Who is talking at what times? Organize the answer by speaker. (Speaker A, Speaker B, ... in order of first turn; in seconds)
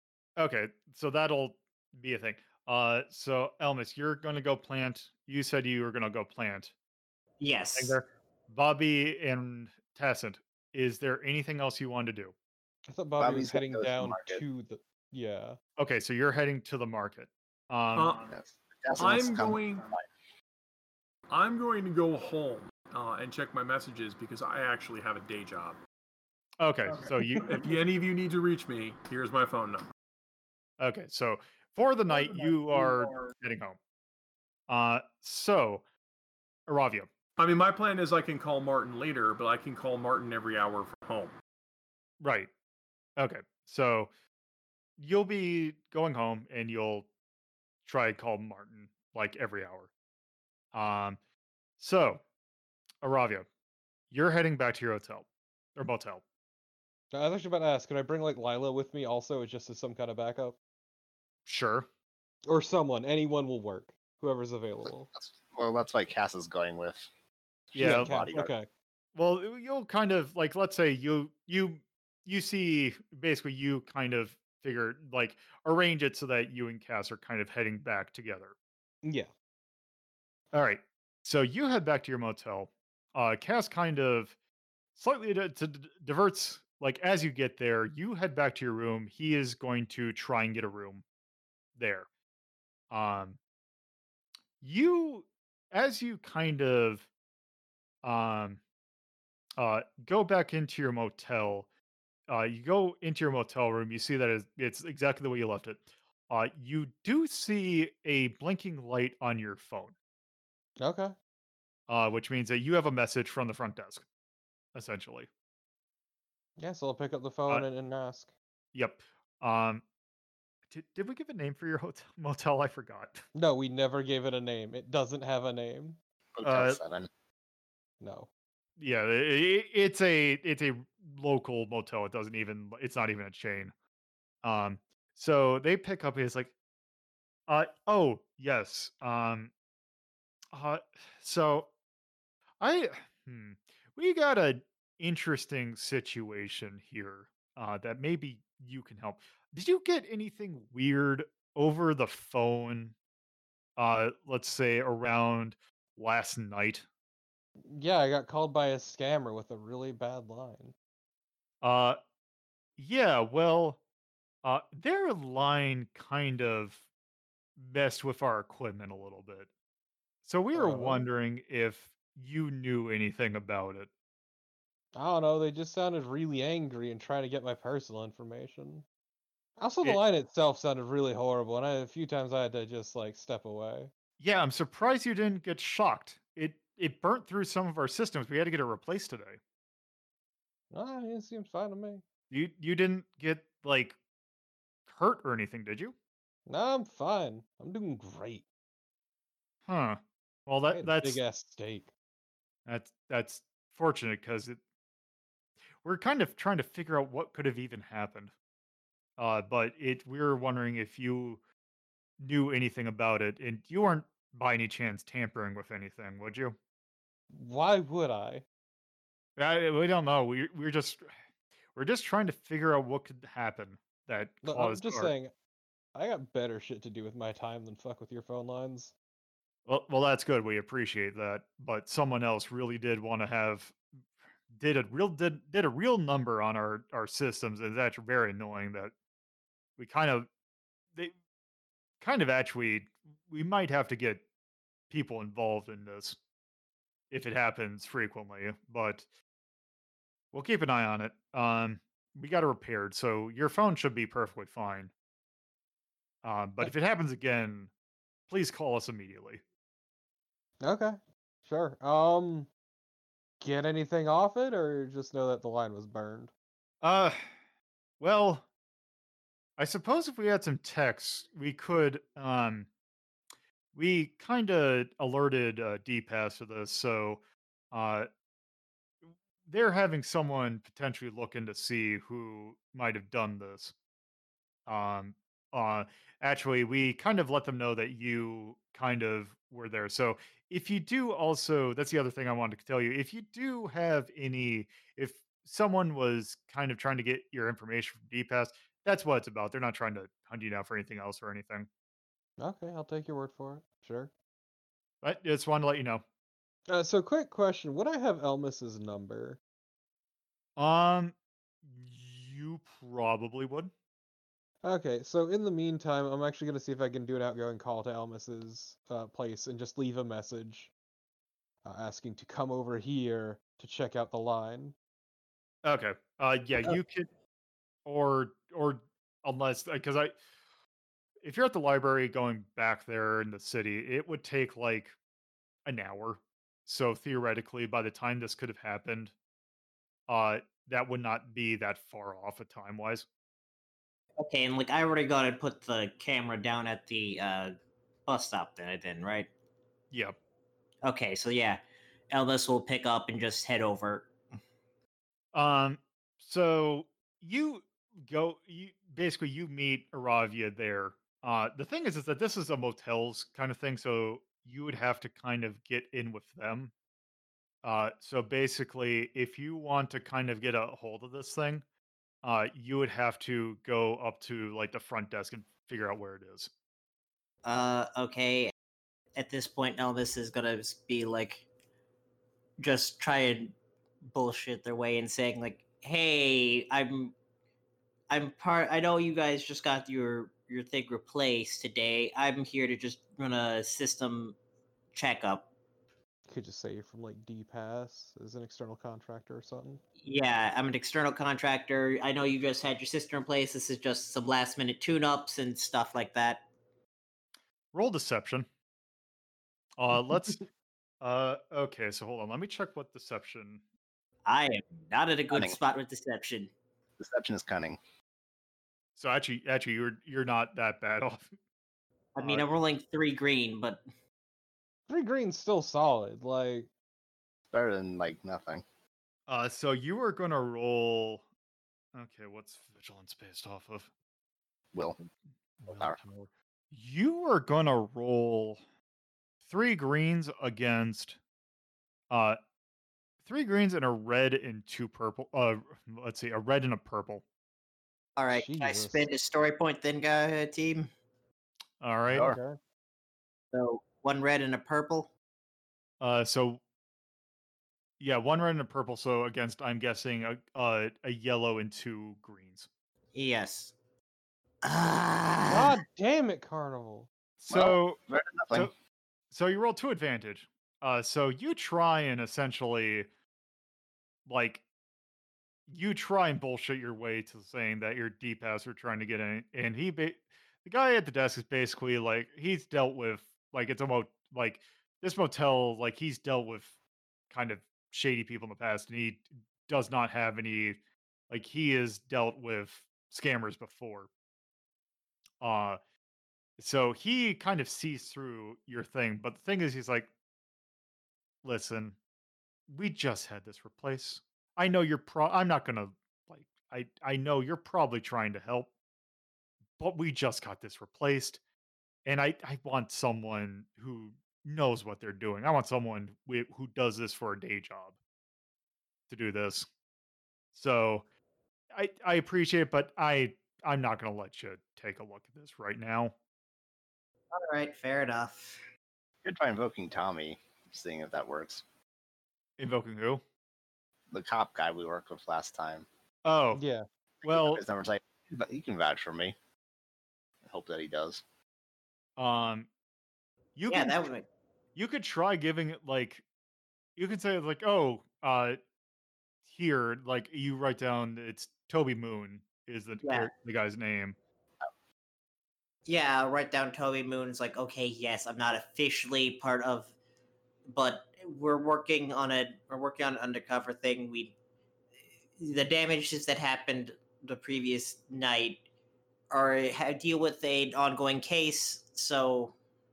Speaker A: 0.4-6.7, 7.7-12.3, 15.8-18.1, 26.6-27.6, 30.8-33.8, 34.7-35.8, 36.7-37.1, 42.2-42.5, 43.2-44.1, 45.0-47.1, 47.9-49.9, 50.7-51.2, 51.8-52.2, 53.0-53.5, 54.1-56.2, 61.5-61.9, 67.8-68.2, 69.2-78.5, 80.5-84.3, 85.0-91.0, 91.8-92.1, 92.9-93.4, 94.6-97.1, 98.0-98.6, 99.6-101.7, 102.3-110.0, 111.9-114.0, 114.7-115.3, 118.7-119.8, 120.7-123.2, 126.4-126.8, 128.8-133.7, 134.4-136.5, 137.5-139.5, 140.5-141.7, 142.6-152.9, 153.8-156.9, 161.6-162.0, 162.8-163.8, 164.4-166.8, 167.6-169.5, 170.2-173.9, 184.2-189.4, 192.3-194.0, 194.9-195.9, 199.7-201.2, 202.7-204.6, 205.8-208.3, 209.2-211.4, 212.2-216.6, 219.4-221.1, 221.8-225.1, 229.7-233.8, 234.5-238.9, 239.8-240.3, 242.0-244.2, 244.9-246.2, 247.1-249.1, 250.3-254.9, 256.2-257.7, 258.3-259.4, 266.8-267.3, 268.0-268.5, 269.6-272.7, 273.8-277.2, 277.7-278.1, 279.4-283.7, 284.7-301.7, 305.0-306.0, 310.6-313.7, 325.6-327.1, 327.9-330.1, 331.2-334.9, 335.7-339.1, 340.1-343.1, 349.9-350.2, 355.3-366.7, 367.6-371.6, 372.2-376.5, 407.7-408.5, 409.8-410.5, 411.0-413.6, 419.0-421.3, 422.2-422.5, 429.3-431.2, 431.9-433.9, 435.6-438.6, 439.4-441.2, 442.1-442.4, 443.2-447.2, 451.8-452.3, 456.0-456.6, 458.0-462.7, 467.4-468.0, 469.3-473.1, 474.3-474.6, 475.7-486.7, 487.3-490.8, 491.3-494.1, 495.4-495.8, 496.6-500.1, 501.4-502.0, 502.7-508.7, 509.8-511.4, 512.1-518.0, 519.1-519.7, 520.5-521.0, 521.7-526.1, 532.6-533.2, 536.2-536.6, 537.2-537.6, 542.2-542.7, 543.6-544.1, 544.8-546.2, 547.0-548.6, 549.5-554.2
Speaker B: 7.4-8.0, 344.2-347.5, 348.1-349.3, 350.8-354.1, 377.4-378.5, 379.2-381.5, 382.6-383.6, 384.1-387.1, 388.1-394.4, 394.9-395.5, 400.0-406.4, 414.3-416.5, 422.1-423.8, 448.2-450.9, 453.5-455.1, 463.1-463.7, 464.6-465.8, 527.3-528.6, 543.7-544.2, 553.0-553.3, 555.9-559.9, 560.7-564.4, 565.4-568.6, 569.3-572.5
Speaker C: 12.9-15.6, 57.1-60.6, 62.5-65.1, 67.8-68.7, 79.0-79.3, 110.8-111.2, 116.6-118.3, 123.3-126.0, 128.0-128.3, 157.7-160.7, 170.5-171.1, 175.0-178.9, 179.6-183.9, 190.7-192.0, 196.5-198.4, 200.8-201.9, 217.3-218.4, 224.4-225.3, 225.9-228.9, 260.6-262.5, 263.4-266.3, 302.4-304.1, 306.7-309.4, 314.6-320.7, 321.6-324.8, 396.3-399.8, 424.9-426.7, 448.3-449.1, 452.1-452.6, 465.5-467.1, 536.5-536.9
Speaker D: 13.2-14.4, 18.3-20.1, 64.8-67.1, 67.7-68.5, 126.3-127.1, 415.3-415.6, 417.0-417.8, 427.5-428.6, 435.7-436.0, 452.1-452.4, 467.5-468.7, 529.2-531.6, 534.1-535.9, 537.2-539.4, 540.4-541.2
Speaker E: 17.9-18.3, 19.0-19.9, 21.3-25.8, 27.4-29.9, 37.4-41.3